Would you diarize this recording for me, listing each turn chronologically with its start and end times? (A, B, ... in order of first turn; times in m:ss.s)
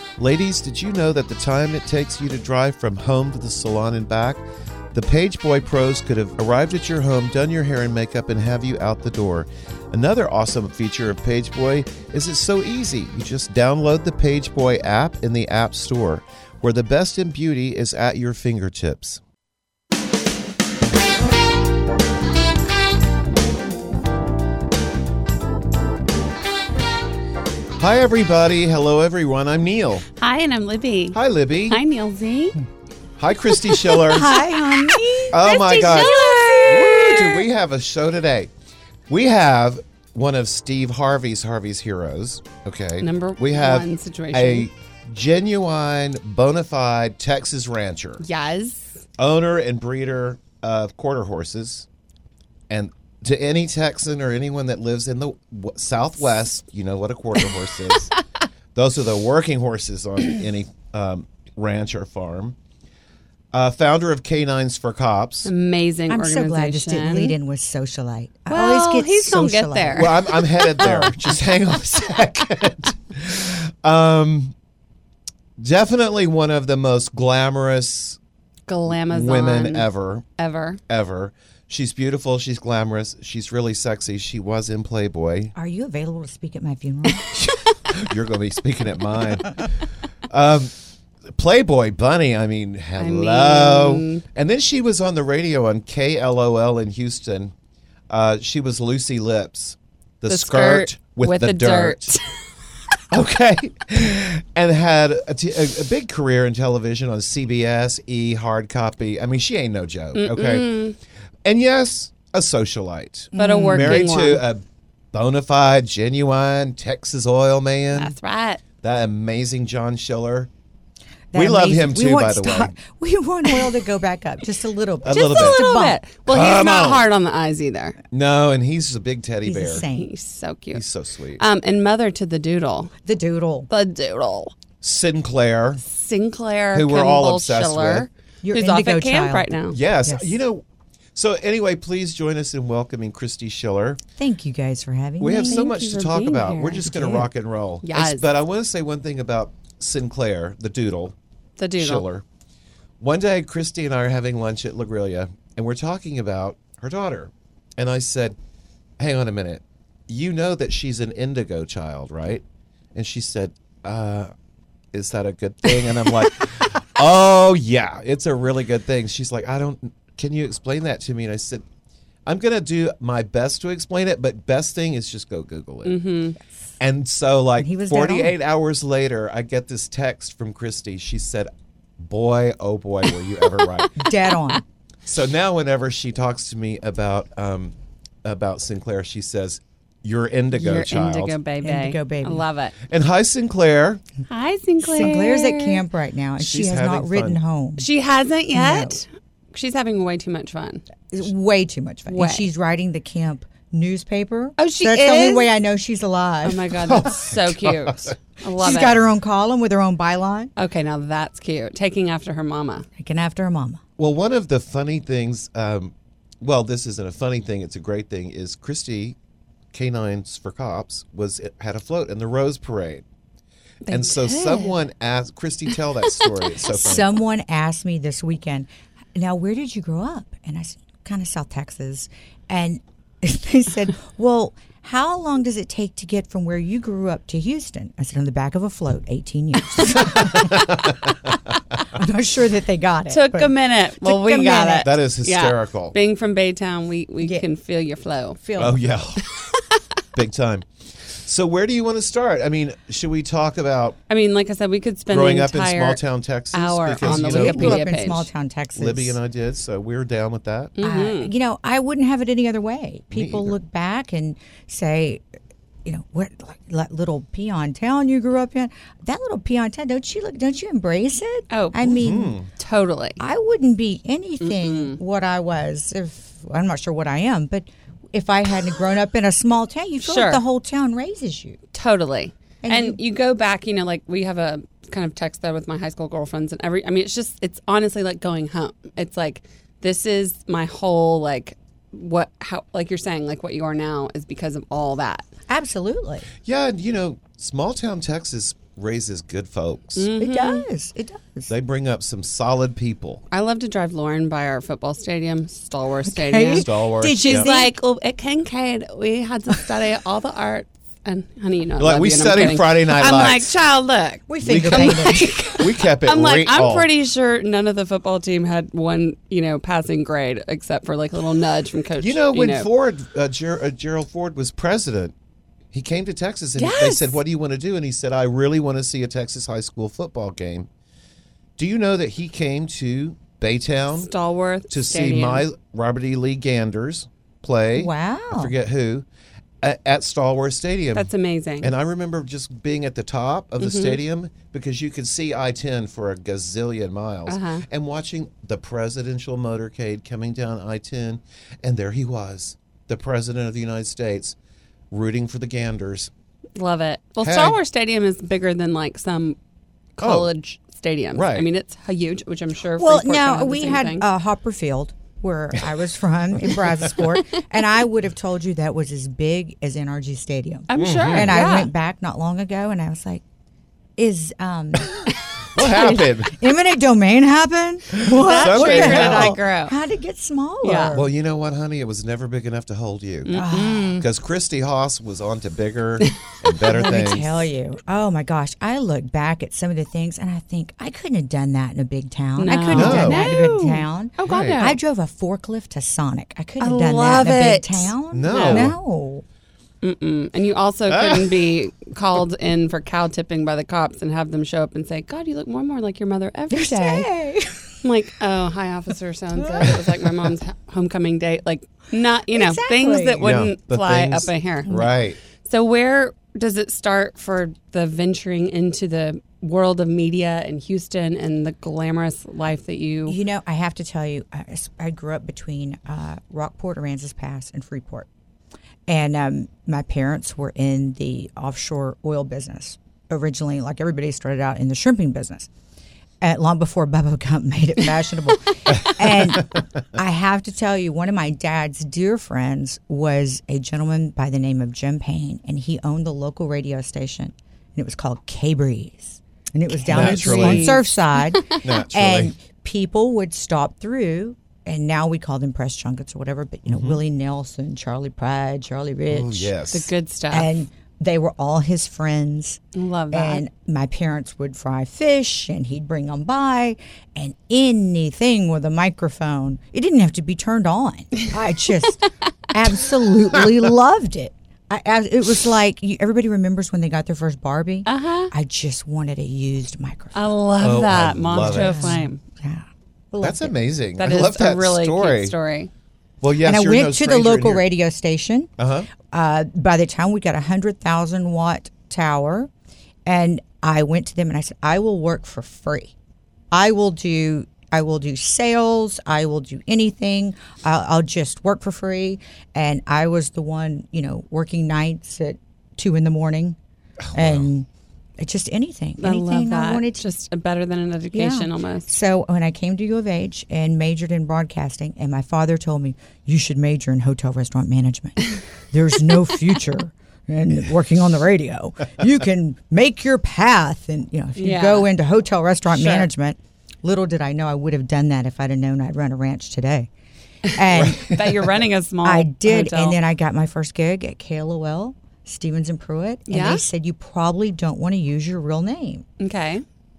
0:00.2-0:19.2 A
0:27.8-0:30.1 A
0:30.2-0:32.6 B
0:31.1-0:31.8 A
0:33.2-0:34.4 A
0:33.5-0:37.4 B
0:34.0-0:37.3 C
0:35.3-0:38.5 A
0:39.1-0:48.2 A
0:43.0-0:44.7 B
0:48.2-0:48.9 B
0:49.2-0:51.9 A
0:52.7-0:58.2 A
0:58.8-1:02.6 A
1:03.5-1:05.5 A
1:05.4-1:07.4 B
1:06.1-1:10.2 C
1:08.5-1:11.2 B
1:09.9-1:14.5 A
1:15.6-1:18.2 A
1:18.7-1:20.8 B
1:18.9-1:20.2 A
1:20.9-1:25.5 A
1:25.6-1:27.3 C
1:27.2-1:29.6 A
1:30.3-1:30.7 A
1:31.4-1:37.5 A
1:33.0-1:34.2 B
1:38.1-1:42.2 A
1:40.3-1:42.2 B
1:43.1-1:50.8 A
1:50.2-1:51.0 B
1:51.4-1:58.2 A
1:53.3-1:54.0 C
1:53.3-1:54.5 B
1:57.9-1:58.6 B
1:58.8-2:00.5 A
2:01.3-2:06.0 C
2:01.3-2:02.8 A
2:05.0-2:05.7 A
2:05.1-2:08.0 B
2:06.3-2:07.1 A
2:08.1-2:09.8 A
2:09.4-2:10.1 C
2:09.9-2:10.8 B
2:10.7-2:11.4 A
2:11.4-2:12.9 B
2:13.0-2:13.7 C
2:13.7-2:14.5 B
2:14.8-2:15.8 A
2:15.8-2:19.8 B
2:16.7-2:18.1 A
2:18.4-2:20.4 C
2:19.7-2:20.6 A
2:21.2-2:24.0 A
2:24.2-2:25.7 C
2:25.2-2:31.2 A
2:25.3-2:27.2 B
2:26.9-2:27.3 C
2:27.8-2:28.3 B
2:31.6-2:32.1 B
2:31.8-2:32.2 A
2:33.0-2:38.4 A
2:39.0-2:42.4 A
2:43.0-2:44.3 A
2:44.9-2:51.6 A
2:52.3-2:56.0 A
2:55.8-2:56.4 B
2:56.8-3:04.0 A
2:57.6-2:58.4 C
3:04.0-3:04.6 C
3:05.0-3:07.7 A
3:08.2-3:11.4 A
3:10.5-3:12.8 B
3:11.6-3:12.5 C
3:12.9-3:14.0 A
3:14.3-3:15.8 B
3:14.8-3:17.9 C
3:16.4-3:17.4 A
3:17.8-3:20.8 B
3:18.5-3:19.0 C
3:21.1-3:26.6 C
3:22.1-3:22.5 B
3:24.6-3:25.5 B
3:26.4-3:29.1 B
3:26.7-3:28.1 A
3:28.6-3:30.5 C
3:30.6-3:32.9 B
3:33.0-3:33.8 C
3:34.0-3:39.2 A
3:39.7-3:43.0 A
3:43.8-3:44.8 B
3:43.9-3:47.1 A
3:46.2-3:46.4 B
3:46.7-4:00.7 C
4:00.1-4:01.1 A
4:01.8-4:04.9 C
4:03.1-4:08.4 B
4:04.8-4:06.0 A
4:07.2-4:07.5 C
4:08.4-4:08.8 C
4:08.6-4:09.2 A
4:09.3-4:09.8 B
4:10.2-4:14.0 A
4:14.1-4:16.0 B
4:15.1-4:17.8 A
4:16.5-4:18.3 B
4:17.0-4:19.2 C
4:18.7-4:20.8 A
4:20.8-4:21.3 B
4:20.8-4:25.2 C
4:23.1-4:23.6 A
4:25.8-4:32.4 C
4:31.5-4:33.2 B
4:32.0-4:32.5 A
4:33.2-4:41.6 C
4:34.4-4:35.0 B
4:40.0-4:40.4 B
4:41.7-4:55.2 B
4:42.6-4:43.0 C
4:55.5-4:56.3 C
4:56.4-5:00.1 A
5:00.0-5:00.7 B
5:00.2-5:01.5 C
5:01.5-5:03.2 A
5:03.3-5:22.7 B
5:06.1-5:07.7 C
5:06.5-5:07.5 A
5:11.8-5:13.5 A
5:14.3-5:15.4 C
5:14.4-5:16.9 A
5:22.0-5:25.1 A
5:25.7-5:30.7 A
5:26.6-5:27.2 B
5:31.6-5:34.1 A
5:34.0-5:35.5 B
5:34.7-5:39.1 A
5:37.8-5:38.5 C
5:39.6-5:41.1 A
5:40.9-5:41.7 B
5:41.6-5:54.4 A
5:43.6-5:44.0 B
5:47.3-5:47.6 B
5:54.9-5:56.1 A
5:56.6-5:59.4 B
5:57.2-5:57.6 A
6:00.0-6:04.0 B
6:00.0-6:00.3 A
6:01.1-6:01.5 A
6:02.8-6:13.2 C
6:10.7-6:11.7 B
6:10.8-6:11.4 A
6:14.0-6:15.0 C
6:15.6-6:16.4 A
6:15.6-6:21.1 C
6:18.1-6:19.8 B
6:18.1-6:19.4 A
6:20.6-6:21.0 B
6:20.9-6:23.4 A
6:23.3-6:24.0 B
6:23.3-6:24.0 C
6:24.0-6:27.5 A
6:26.7-6:39.2 C
6:32.4-6:34.8 B
6:32.7-6:33.3 A
6:34.2-6:34.6 A
6:36.6-6:38.7 B
6:38.1-6:38.8 A
6:39.8-6:47.1 B
6:40.9-6:41.3 A
6:46.5-6:47.9 C
6:47.8-6:54.9 B
6:49.4-6:49.9 C
6:52.3-6:53.2 C
6:53.2-6:55.2 A
6:54.7-6:54.9 C
6:55.4-7:03.2 B
7:03.1-7:08.1 C
7:08.9-7:15.5 C
7:16.2-7:39.5 C
7:29.9-7:30.8 A
7:29.9-7:31.6 B
7:31.6-7:32.3 A
7:36.7-7:37.0 A
7:39.1-7:39.9 A
7:39.7-7:40.5 B
7:40.3-7:42.6 C
7:42.7-7:43.4 B
7:43.1-8:00.3 C
7:57.9-7:58.3 B
8:00.1-8:02.2 B
8:00.6-8:01.9 A
8:01.4-8:03.5 C
8:03.2-8:05.4 A
8:04.0-8:05.7 B
8:06.2-8:07.7 A
8:06.4-8:08.5 C
8:08.6-8:08.9 A
8:09.1-8:12.5 C
8:13.1-8:15.9 C
8:16.5-8:26.6 C
8:27.1-8:27.5 A
8:27.1-8:27.7 C
8:28.2-8:30.0 C
8:29.0-8:31.9 B
8:31.1-8:49.9 C
8:44.4-8:44.9 B
8:45.7-8:46.1 B
8:50.5-8:53.0 B
8:50.5-8:51.0 C
8:50.7-8:51.6 A
8:52.0-8:59.0 C
8:56.3-8:56.6 B
8:59.2-8:59.6 B